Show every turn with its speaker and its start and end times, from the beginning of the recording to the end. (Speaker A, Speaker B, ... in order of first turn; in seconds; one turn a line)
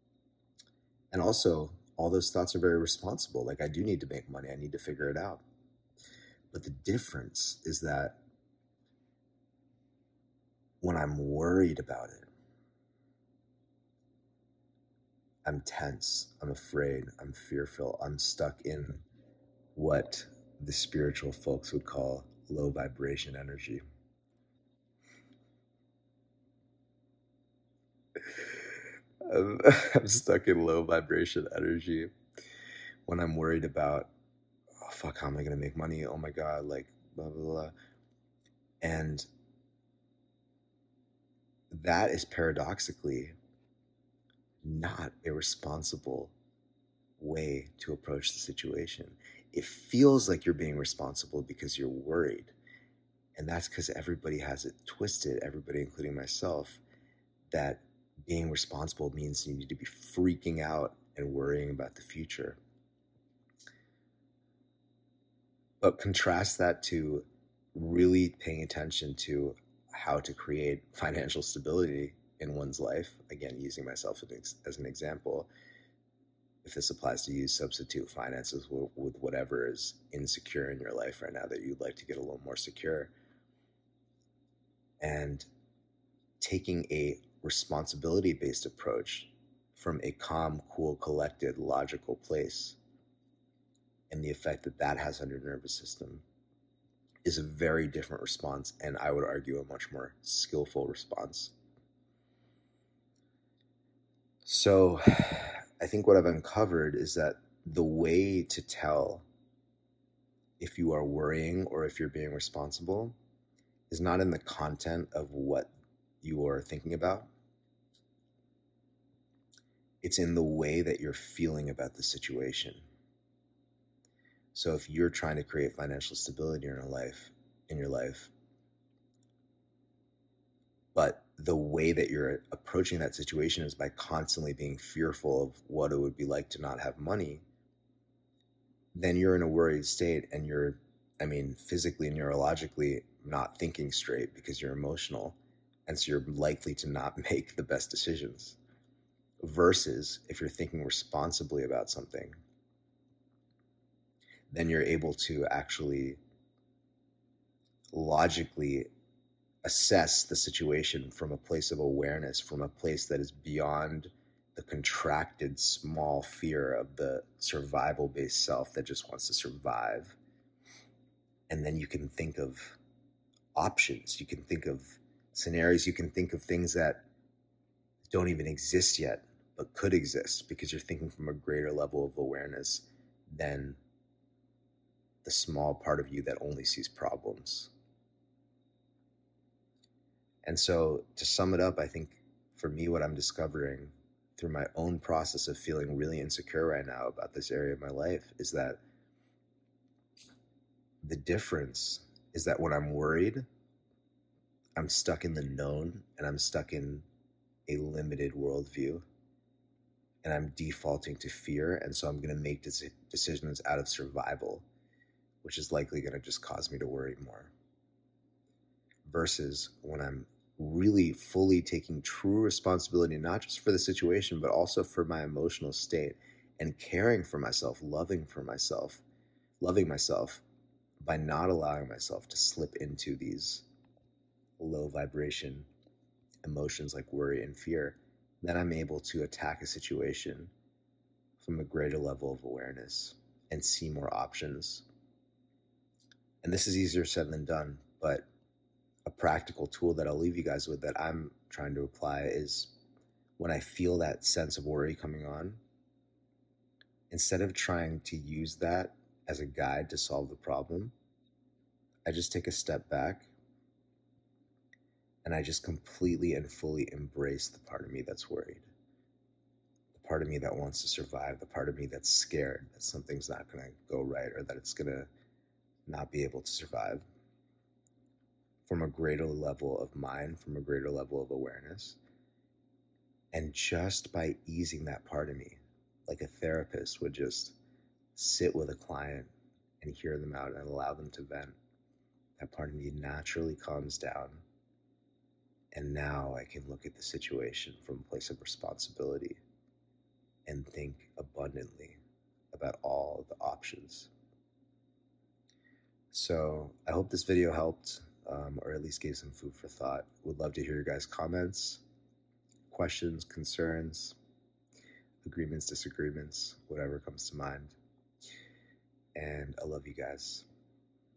Speaker A: 1.1-5.4
Speaker A: 6.5-8.2
Speaker A: 10.8-12.3
Speaker A: 15.4-19.0
Speaker A: 19.7-23.8
Speaker A: 28.3-28.6
Speaker A: 29.2-32.1
Speaker A: 33.0-34.1
Speaker A: 34.8-37.7
Speaker A: 38.8-39.2
Speaker A: 41.7-43.3
Speaker A: 44.6-46.3
Speaker A: 47.2-52.5
Speaker A: 53.4-56.8
Speaker A: 57.5-62.6
Speaker A: 65.8-75.5
Speaker A: 76.6-83.1
Speaker A: 85.0-85.5
Speaker A: 86.4-92.8
Speaker A: 94.1-96.2
Speaker A: 97.2-101.5
Speaker A: 104.5-109.2
Speaker A: 110.6-113.2
Speaker A: 113.9-115.7
Speaker A: 116.2-117.3
Speaker A: 120.0-122.8
Speaker A: 124.5-128.3
Speaker A: 130.9-137.4
Speaker A: 138.9-148.6
Speaker A: 149.4-152.3
Speaker A: 154.5-156.2
Speaker A: 157.9-158.9
Speaker A: 159.6-170.2
Speaker A: 171.5-172.8
Speaker A: 173.5-177.1
Speaker A: 178.1-183.8
Speaker A: 185.2-187.7
Speaker A: 190.4-198.8
Speaker A: 201.0-203.4
Speaker A: 204.8-207.0
Speaker A: 207.7-209.0
Speaker A: 210.2-214.7
Speaker A: 215.4-217.5
Speaker A: 219.0-229.0
Speaker A: 229.6-230.4
Speaker A: 231.0-233.6
Speaker A: 234.6-235.7
Speaker A: 236.4-240.5
Speaker A: 241.4-244.8
Speaker A: 246.4-248.2
Speaker A: 249.1-252.7
Speaker A: 253.4-255.6
Speaker A: 257.1-260.9
Speaker A: 262.1-263.3
Speaker A: 265.2-268.7
Speaker A: 269.9-275.1
Speaker A: 275.9-277.0
Speaker A: 278.6-282.0
Speaker A: 283.3-287.5
Speaker A: 288.1-291.6
Speaker A: 292.4-294.4
Speaker A: 295.7-299.4
Speaker A: 300.5-302.0
Speaker A: 302.5-304.1
Speaker A: 306.1-311.8
Speaker A: 312.7-314.1
Speaker A: 315.2-317.7
Speaker A: 319.1-320.4